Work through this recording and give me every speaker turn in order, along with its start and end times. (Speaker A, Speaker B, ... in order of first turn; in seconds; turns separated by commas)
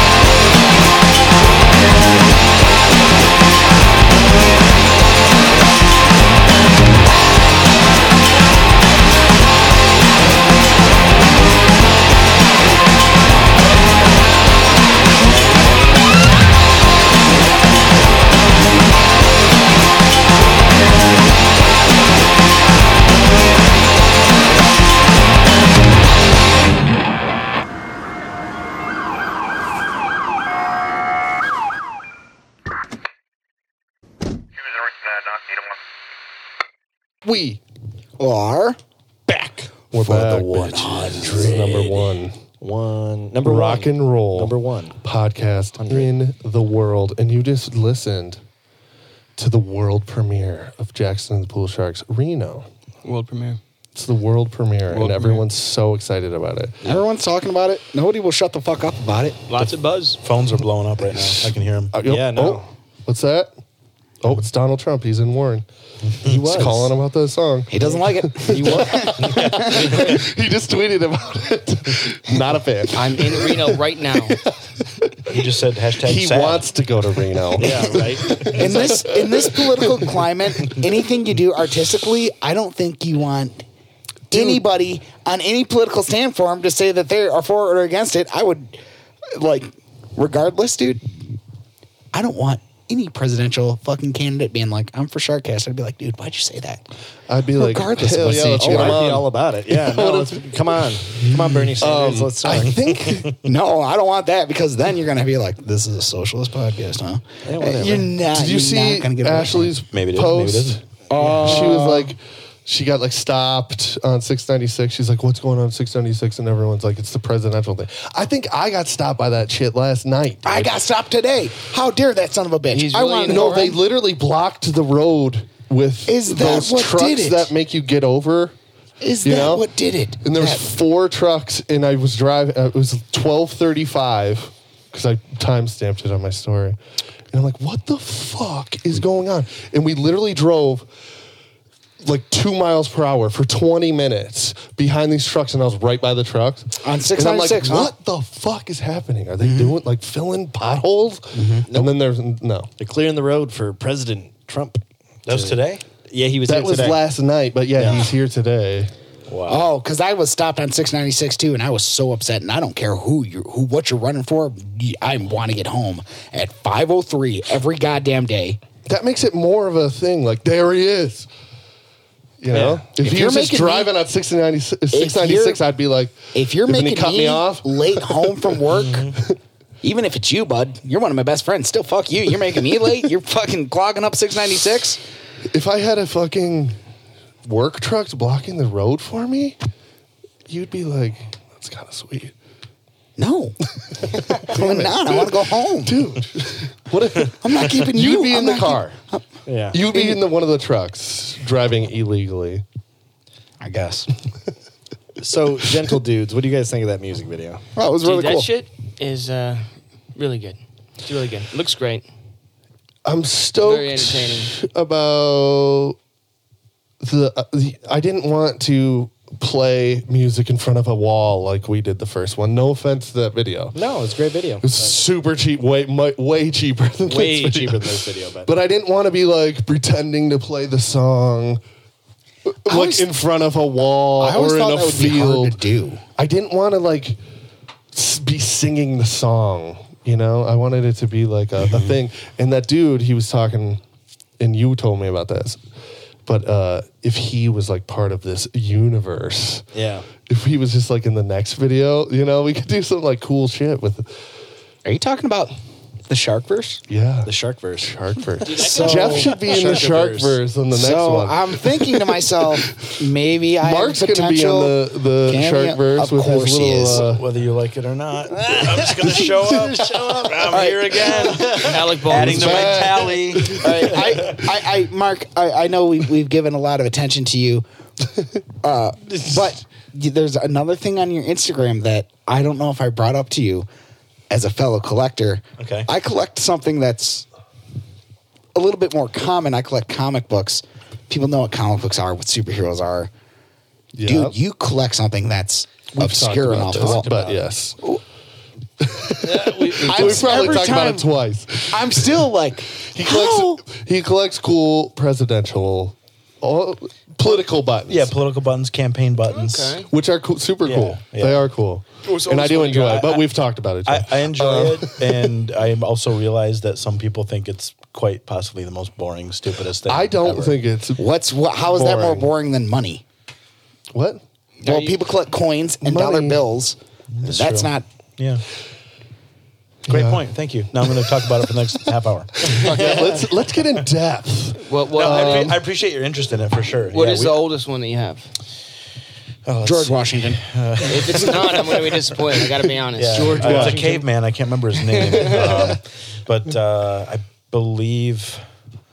Speaker A: 37.2-37.6, Speaker B: 38.2-38.8, Speaker C: 39.3-39.7, Speaker A: 39.9-42.4, Speaker B: 40.0-41.8, Speaker D: 41.5-42.0, Speaker C: 42.6-45.0, Speaker A: 43.4-48.4, Speaker C: 45.8-46.1, Speaker A: 49.4-52.6, Speaker E: 53.0-53.6, Speaker A: 53.9-56.8, Speaker E: 54.9-55.4, Speaker B: 56.8-59.4, Speaker E: 59.5-60.2, Speaker D: 59.5-61.9, Speaker A: 61.2-63.5, Speaker C: 62.0-62.6, Speaker A: 64.2-65.6, Speaker C: 66.2-66.9, Speaker A: 66.3-75.3, Speaker B: 67.7-70.0, Speaker C: 68.5-69.0, Speaker D: 69.2-69.7, Speaker E: 72.9-74.4, Speaker D: 75.3-76.7, Speaker A: 76.0-80.1, Speaker C: 77.6-78.7, Speaker B: 78.5-83.6, Speaker B: 84.3-88.8, Speaker A: 84.3-84.6, Speaker B: 89.3-91.2, Speaker B: 92.1-96.8, Speaker A: 97.3-101.0, Speaker B: 97.5-99.1, Speaker C: 98.3-102.8, Speaker A: 101.8-103.3, Speaker D: 103.1-103.3, Speaker B: 103.4-109.8, Speaker C: 107.4-108.1, Speaker A: 108.3-110.8, Speaker D: 109.9-110.8, Speaker B: 111.1-112.1, Speaker A: 111.3-120.7, Speaker B: 120.4-123.8, Speaker E: 122.7-123.8, Speaker A: 123.2-128.5, Speaker B: 126.1-127.5, Speaker B: 129.0-130.6, Speaker A: 129.2-129.7, Speaker A: 130.2-136.8, Speaker A: 137.3-140.9, Speaker A: 142.0-152.7, Speaker B: 146.8-147.9, Speaker B: 149.4-149.8, Speaker B: 151.3-151.6, Speaker C: 151.7-152.0, Speaker C: 152.8-157.0, Speaker D: 155.2-155.8, Speaker A: 156.4-158.9, Speaker C: 157.8-158.0, Speaker D: 159.3-159.6, Speaker B: 159.5-168.6, Speaker A: 168.8-171.3, Speaker A: 172.4-178.6, Speaker B: 172.6-173.9, Speaker B: 174.9-175.6, Speaker B: 176.3-179.1, Speaker B: 179.8-185.0, Speaker A: 185.5-186.8, Speaker A: 187.4-189.6, Speaker A: 190.5-192.3, Speaker B: 193.2-193.6, Speaker A: 194.0-198.9, Speaker B: 194.4-196.1, Speaker B: 197.4-199.2, Speaker C: 199.5-199.8, Speaker A: 199.7-202.6, Speaker B: 199.8-200.2, Speaker B: 203.6-204.1, Speaker C: 205.2-207.6, Speaker B: 207.8-208.5, Speaker E: 208.0-212.1, Speaker A: 213.0-215.9, Speaker E: 213.6-214.5, Speaker A: 217.0-223.8, Speaker C: 223.7-224.9, Speaker A: 224.6-231.6, Speaker C: 227.0-228.5, Speaker A: 232.5-235.6, Speaker B: 232.7-233.1, Speaker B: 234.2-236.0, Speaker A: 236.2-237.2, Speaker A: 237.9-243.8, Speaker A: 244.4-245.6, Speaker A: 246.2-249.6, Speaker C: 249.7-250.1, Speaker A: 250.3-254.1, Speaker B: 254.8-255.5, Speaker B: 256.1-256.8, Speaker A: 256.9-261.6, Speaker C: 257.2-257.9, Speaker E: 258.4-259.4, Speaker B: 258.6-259.3, Speaker C: 258.6-260.4, Speaker B: 260.7-267.1, Speaker A: 263.6-267.2, Speaker D: 266.9-274.5, Speaker C: 268.3-271.7, Speaker E: 271.6-272.9, Speaker A: 272.1-273.6, Speaker B: 273.5-277.6, Speaker B: 278.6-283.7, Speaker B: 284.3-287.3, Speaker D: 285.6-285.9, Speaker B: 288.5-293.1, Speaker A: 293.9-294.4, Speaker B: 294.0-297.1, Speaker A: 295.9-297.8, Speaker C: 296.7-297.4, Speaker A: 298.8-302.1, Speaker C: 299.2-300.6, Speaker B: 299.8-301.1, Speaker B: 301.7-303.6, Speaker A: 302.9-308.1, Speaker D: 307.9-309.8, Speaker E: 309.3-309.9, Speaker A: 309.9-315.3, Speaker D: 310.6-311.5, Speaker D: 312.0-313.3, Speaker D: 313.9-320.6, Speaker A: 319.9-321.0, Speaker B: 321.0-323.0, Speaker A: 321.7-322.3, Speaker A: 323.9-324.2, Speaker E: 324.6-324.9, Speaker B: 324.6-327.8, Speaker A: 325.8-326.4, Speaker D: 327.1-328.4, Speaker A: 329.9-330.2, Speaker D: 329.9-332.9, Speaker A: 330.8-331.3, Speaker A: 332.4-335.6, Speaker E: 332.5-333.3, Speaker E: 334.6-335.6, Speaker D: 334.9-337.4, Speaker E: 336.9-338.3, Speaker D: 339.4-342.1, Speaker B: 339.6-340.4, Speaker E: 340.9-343.6, Speaker D: 342.9-348.4, Speaker C: 343.1-344.0, Speaker A: 343.3-343.8, Speaker E: 344.9-345.6